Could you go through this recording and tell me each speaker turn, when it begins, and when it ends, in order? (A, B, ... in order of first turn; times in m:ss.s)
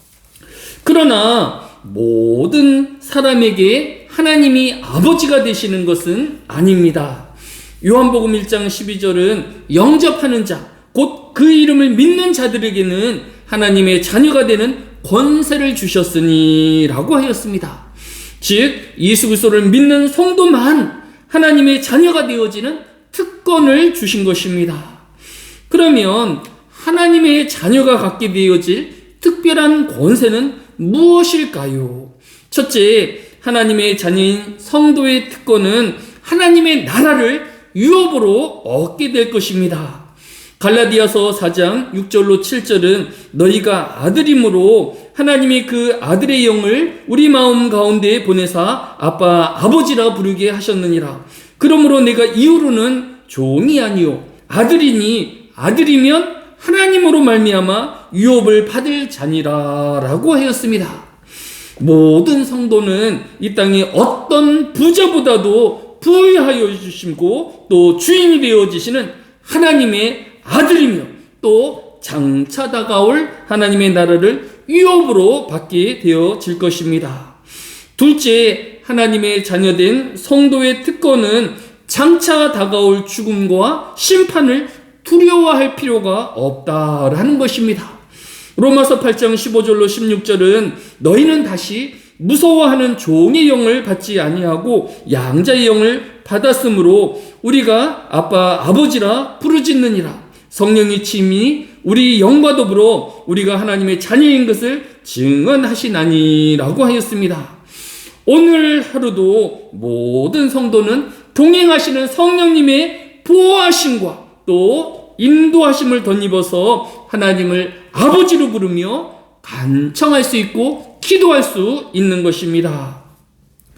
0:00.8-0:07.3 A
0:07.8-0:17.9 A
0:18.4-0:25.0 A
0:25.7-0:40.1 A
0:40.6-1:01.1 A
1:01.8-1:17.4 A
1:18.0-1:28.0 A
1:28.6-1:47.6 A
1:48.2-2:03.0 A